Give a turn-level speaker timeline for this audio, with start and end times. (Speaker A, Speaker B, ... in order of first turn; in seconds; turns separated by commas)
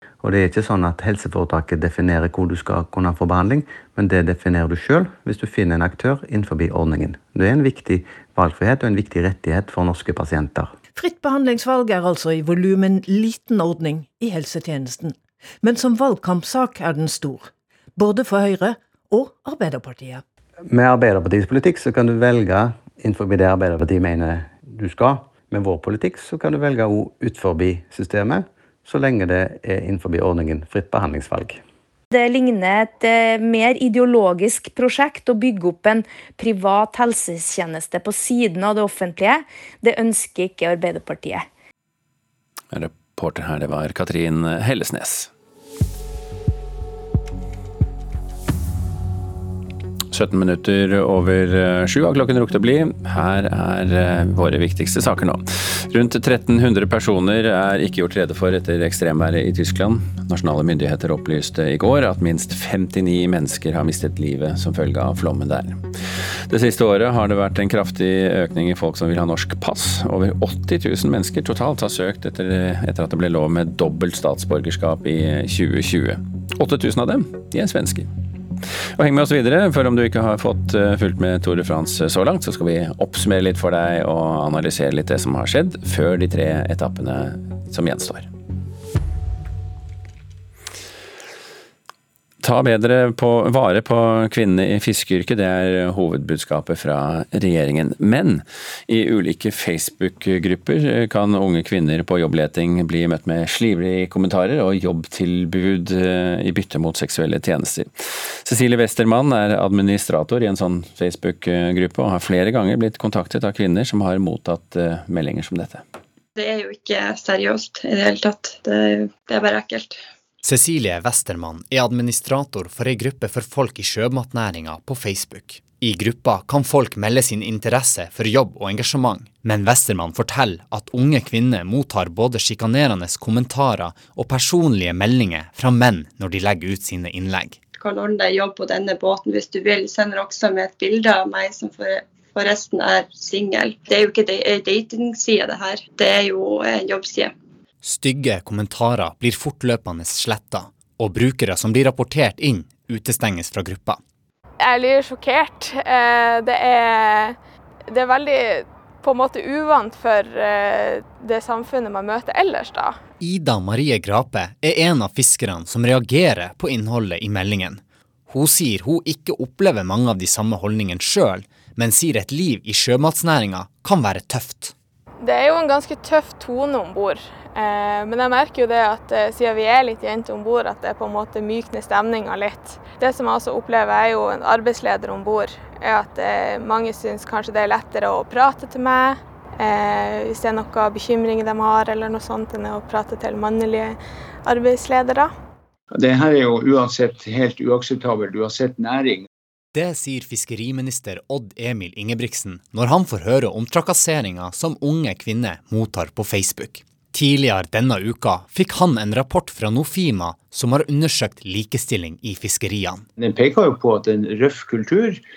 Speaker A: 0.2-10.7, Speaker B: 10.9-20.2, Speaker A: 20.7-31.6, Speaker C: 32.1-41.4, Speaker D: 42.7-45.3, Speaker D: 50.1-65.8, Speaker D: 66.5-78.1, Speaker D: 79.0-88.3, Speaker D: 92.4-107.9, Speaker D: 108.4-115.8, Speaker E: 116.3-120.0, Speaker F: 120.4-137.6, Speaker E: 137.7-147.3, Speaker F: 147.8-154.0, Speaker G: 154.6-157.4, Speaker G: 157.9-163.0, Speaker F: 163.2-174.7, Speaker G: 175.2-195.3, Speaker H: 195.9-199.2, Speaker F: 199.7-213.0, Speaker H: 213.2-215.2